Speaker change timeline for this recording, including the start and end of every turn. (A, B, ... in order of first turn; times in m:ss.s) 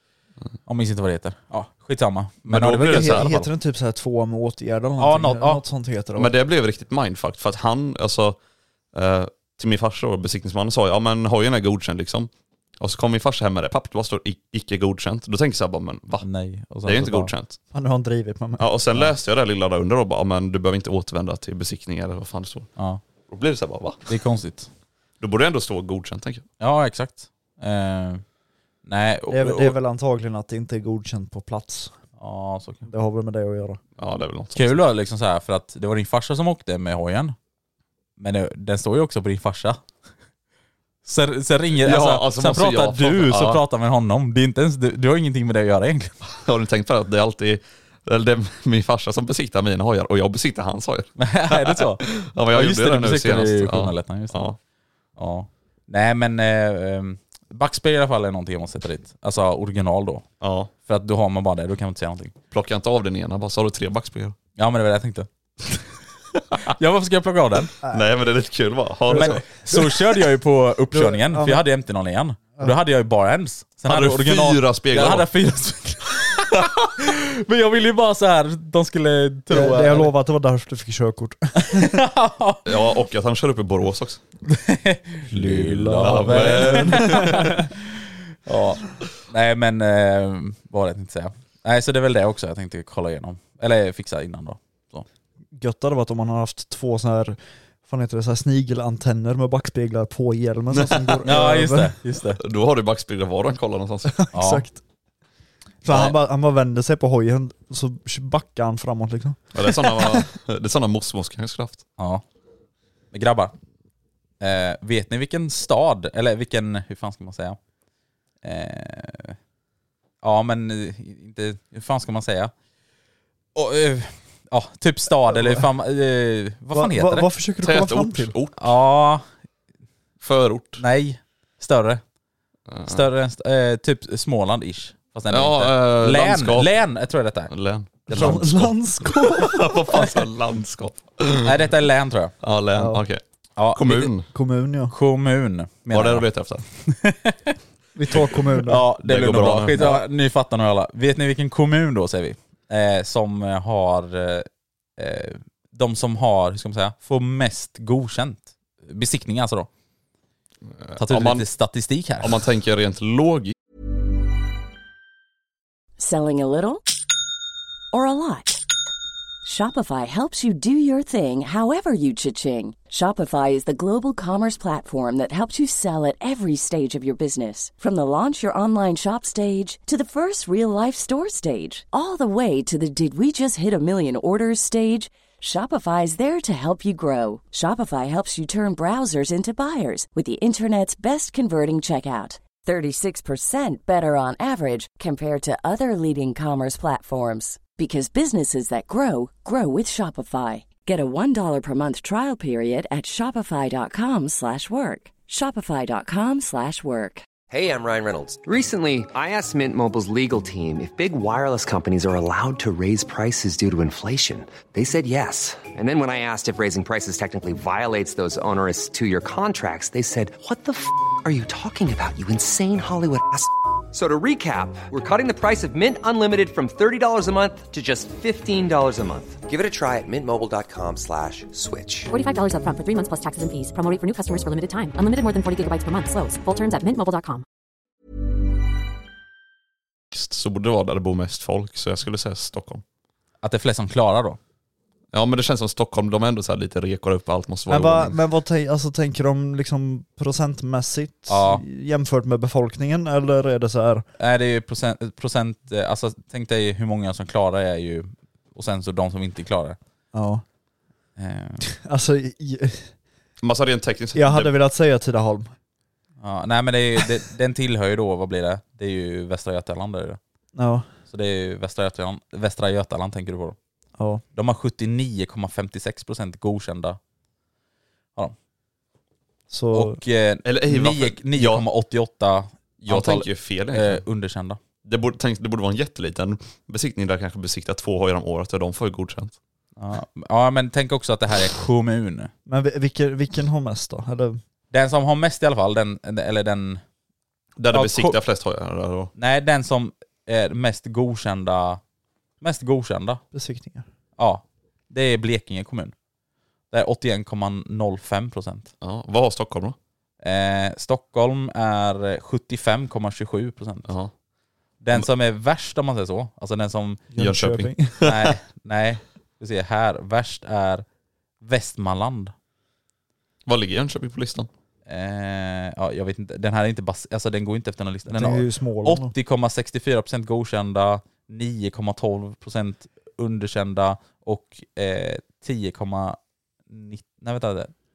0:00.6-0:03.5 A
0:02.5-0:03.3 B
0:02.7-0:06.3 C
0:05.0-0:05.6 A
0:06.2-0:08.4 B
0:08.9-0:16.3 B
0:16.2-0:17.3 A
0:16.8-0:17.6 B
0:17.7-0:18.6 C
0:18.6-0:22.7 B
0:22.8-0:23.0 A
0:23.3-0:24.1 B
0:24.1-0:24.7 A
0:25.2-0:26.4 B
0:26.6-0:28.2 A
0:28.8-0:29.7 A
0:29.3-0:31.9 C
0:32.2-0:32.9 A
0:32.8-0:33.8 C
0:34.0-0:34.8 B
0:34.5-0:37.3 A
0:38.2-0:39.8 A
0:41.0-0:46.1 A
0:41.8-0:43.6 B
0:46.3-0:54.6 B
0:51.2-0:54.4 A
0:55.2-1:00.2 A
1:00.4-1:00.7 B
1:00.8-1:02.3 A
1:02.5-1:04.3 B
1:04.6-1:05.3 A
1:06.6-1:07.7 A
1:07.8-1:08.1 C
1:07.9-1:09.5 B
1:09.1-1:09.9 C
1:09.1-1:20.1 A
1:10.9-1:11.6 C
1:13.8-1:15.3 B
1:19.5-1:22.0 C
1:21.6-1:22.7 A
1:22.6-1:24.2 B
1:24.5-1:27.7 A
1:25.3-1:27.6 B
1:25.7-1:27.6 C
1:28.4-1:35.0 A
1:35.5-1:41.9 C
1:40.7-1:41.2 B
1:41.2-1:42.4 A
1:42.4-1:44.2 B
1:44.2-1:44.8 C
1:44.3-1:44.6 A
1:45.8-1:50.2 C
1:49.5-1:51.8 B
1:52.0-1:52.2 A
1:53.1-1:53.5 A
1:54.4-1:57.6 A
1:58.4-1:59.4 A
2:00.2-2:02.5 A
2:03.5-2:07.3 A
2:05.3-2:05.6 C
2:06.7-2:08.3 C
2:07.6-2:08.8 B
2:08.6-2:09.2 A
2:10.2-2:10.8 B
2:10.8-2:12.0 A
2:12.7-2:13.0 B
2:12.8-2:17.5 A
2:15.3-2:16.7 B
2:17.5-2:21.5 B
2:18.1-2:18.4 A
2:18.1-2:19.8 C
2:21.4-2:22.3 A
2:22.4-2:23.2 B
2:22.7-2:23.0 C
2:23.6-2:24.1 A
2:23.7-2:24.3 B
2:24.3-2:24.9 C
2:24.9-2:27.4 A
2:25.9-2:26.6 B
2:27.9-2:28.8 C
2:28.6-2:39.7 A
2:29.0-2:29.9 B
2:29.7-2:30.0 C
2:40.8-2:41.4 B
2:41.0-2:42.3 A
2:42.2-2:43.5 B
2:46.0-2:46.8 D
2:47.9-2:48.6 D
2:49.4-3:27.3 D
3:27.5-3:52.1 E
3:52.1-3:57.4 F
4:00.1-4:02.8 B
4:03.4-4:04.4 A
4:05.1-4:08.2 B
4:07.7-4:14.0 C
4:11.3-4:11.6 A
4:14.2-4:19.8 A
4:20.1-4:20.4 C
4:21.2-4:21.6 A
4:21.6-4:22.9 C
4:23.4-4:24.5 B
4:24.1-4:25.5 C
4:26.2-4:30.2 A
4:30.6-4:30.9 C
4:31.1-4:33.6 A
4:34.3-4:37.0 A
4:39.5-4:40.0 C
4:39.7-4:44.6 A
4:40.4-4:41.6 B
4:42.8-4:44.0 B
4:44.8-4:49.4 B
4:49.8-4:52.3 A
4:52.4-4:54.4 C
4:54.7-4:56.8 A
4:57.6-4:59.1 B
4:57.7-4:58.2 A
4:59.2-5:01.8 A
5:02.4-5:03.2 A
5:03.3-5:03.8 C
5:04.2-5:05.9 A
5:06.7-5:08.7 A
5:08.8-5:09.8 B
5:10.2-5:13.9 A
5:13.9-5:14.1 B
5:14.8-5:17.0 A
5:17.1-5:17.9 C
5:17.2-5:18.3 B
5:18.0-5:20.8 A
5:21.4-5:22.3 A
5:23.5-5:24.5 B
5:24.9-5:36.2 A
5:28.0-5:29.1 C
5:36.7-5:37.7 A